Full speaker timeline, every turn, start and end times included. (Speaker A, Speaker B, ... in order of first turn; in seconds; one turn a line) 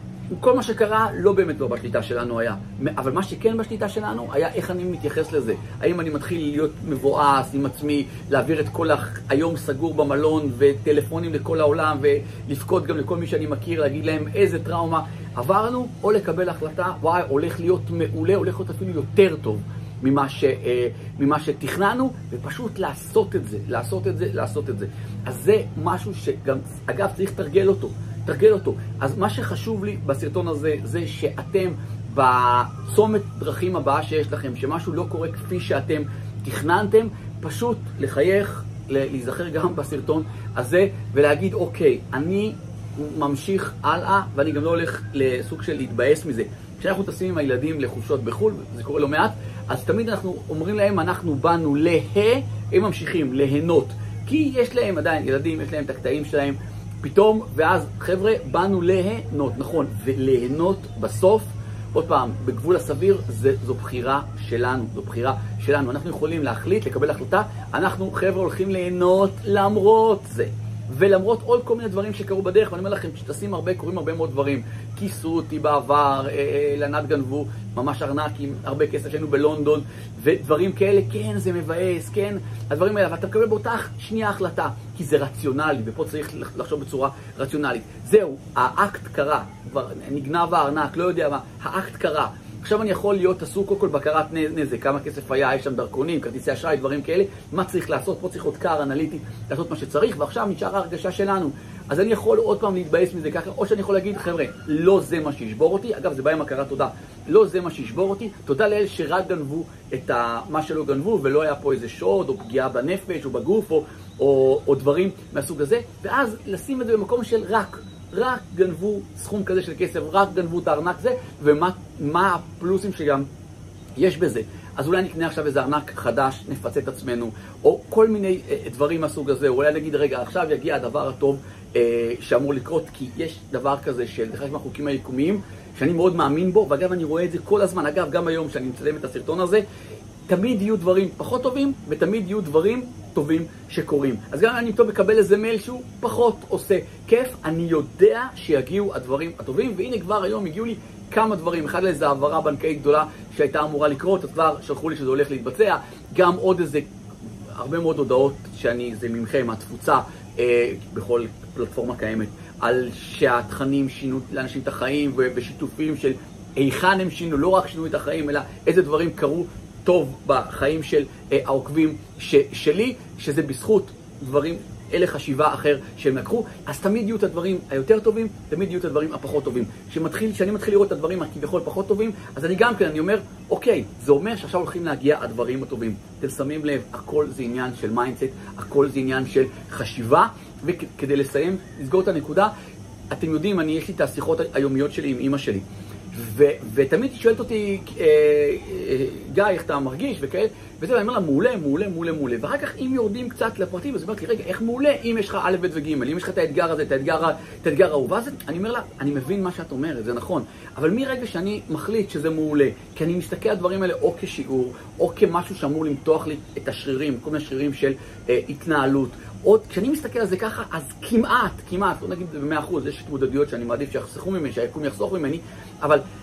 Speaker A: 0.3-123.3
Speaker A: 124.0-139.6
Speaker A: 140.3-156.9
Speaker A: 157.6-192.5
Speaker A: 193.1-226.0